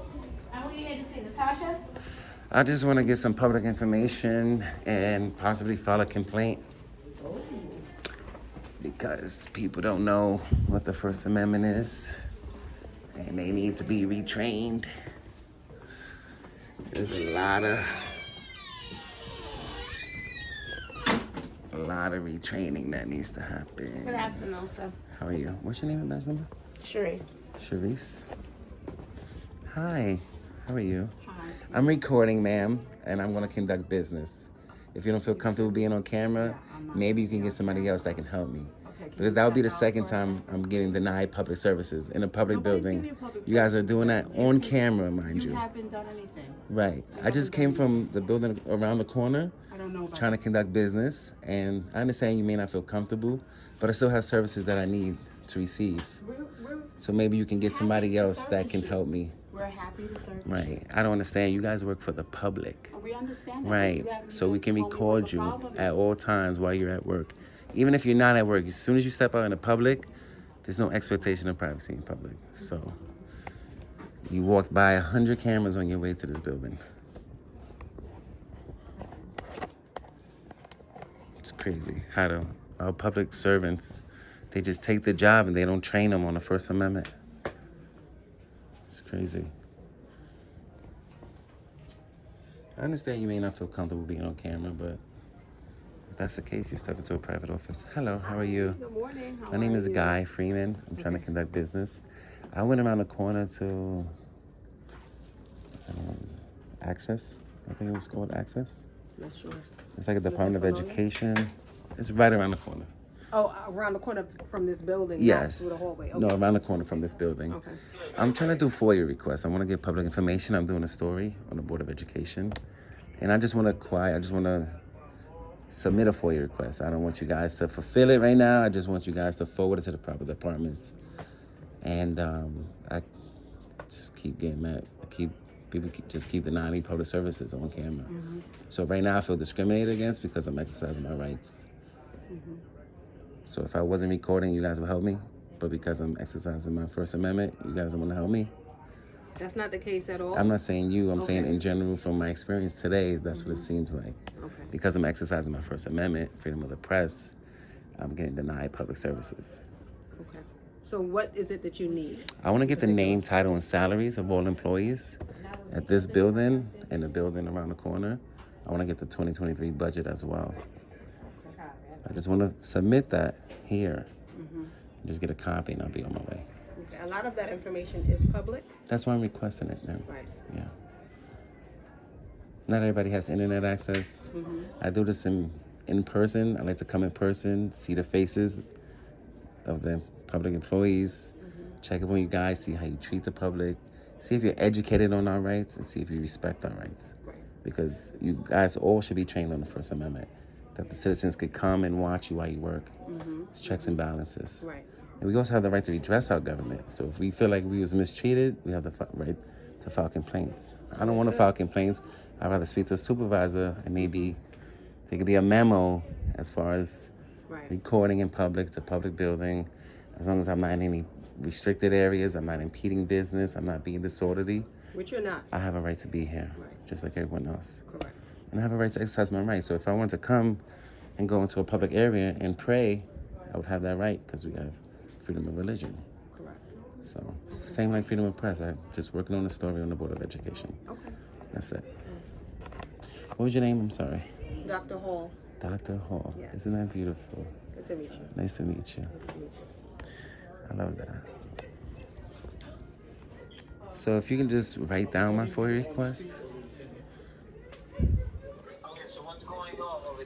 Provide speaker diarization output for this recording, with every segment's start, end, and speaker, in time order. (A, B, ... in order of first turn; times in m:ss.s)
0:00.5-0:01.8 A
0:02.5-0:06.6 B
0:08.8-0:12.2 B
0:13.1-0:14.9 B
0:16.9-0:18.2 B
0:21.7-0:24.4 B
0:24.0-0:24.9 A
0:25.1-0:26.5 B
0:26.8-0:27.4 A
0:27.6-0:28.3 B
0:29.6-0:31.1 B
0:31.2-0:32.0 C
0:31.7-0:45.6 B
0:35.5-0:35.8 C
0:36.4-0:38.1 C
0:38.8-0:40.9 C
0:42.5-0:48.0 C
0:46.7-0:49.5 B
0:49.7-0:50.4 C
0:50.1-0:56.2 B
0:56.2-0:56.9 C
0:57.0-0:59.4 B
0:57.6-1:00.8 C
1:00.4-1:03.0 B
1:02.9-1:06.2 C
1:03.6-1:10.1 B
1:10.6-1:13.0 B
1:14.3-1:16.8 B
1:21.4-1:27.1 B
1:28.9-1:29.5 B
1:32.8-1:35.0 B
1:36.1-1:38.8 B
1:38.2-1:40.2 D
1:39.5-1:44.1 B
1:45.9-1:48.8 B
1:49.2-1:49.6 D
1:50.0-1:52.9 B
1:50.2-1:51.0 D
1:53.3-1:56.3 D
1:55.2-1:57.6 B
1:57.5-1:57.8 D
1:58.1-2:02.6 B
2:03.2-2:04.8 B
2:05.7-2:10.9 B
2:11.8-2:13.0 B
2:13.9-2:21.6 B
2:18.1-2:18.4 D
2:22.3-2:22.6 D
2:23.4-2:28.5 B
2:29.4-2:30.5 D
2:30.3-2:34.2 B
2:31.1-2:31.5 D
2:33.3-2:33.7 D
2:34.4-2:34.7 D
2:34.7-2:37.3 B
2:38.0-2:39.6 B
2:40.2-2:43.2 D
2:42.4-2:50.6 B
2:51.4-2:52.0 D
2:52.0-2:54.1 B
2:54.3-2:54.7 D
2:55.0-2:56.4 B
2:56.8-2:58.7 D
2:58.9-3:00.7 B
3:02.7-3:08.6 B
3:04.3-3:04.7 D
3:09.6-3:22.9 B
3:11.4-3:11.7 D
3:23.0-3:23.9 D
3:23.5-3:24.6 B
3:24.6-3:24.9 D
3:25.2-3:34.4 B
3:31.0-3:31.5 D
3:34.0-3:34.3 D
3:35.1-3:37.1 B
3:37.7-3:44.7 B
3:44.9-3:45.5 D
3:45.5-3:47.8 B
3:47.9-3:48.2 D
3:48.5-3:50.6 B
3:51.2-3:56.0 B
3:56.3-3:56.6 D
3:57.0-4:00.8 B
4:00.9-4:01.2 D
4:01.5-4:01.9 B
4:03.4-4:04.3 B
4:04.6-4:05.3 D
4:05.6-4:07.6 B
4:07.7-4:08.3 D
4:08.2-4:09.1 B
4:09.1-4:09.7 D
4:10.7-4:11.3 B
4:13.9-4:16.4 B
4:19.2-4:20.1 A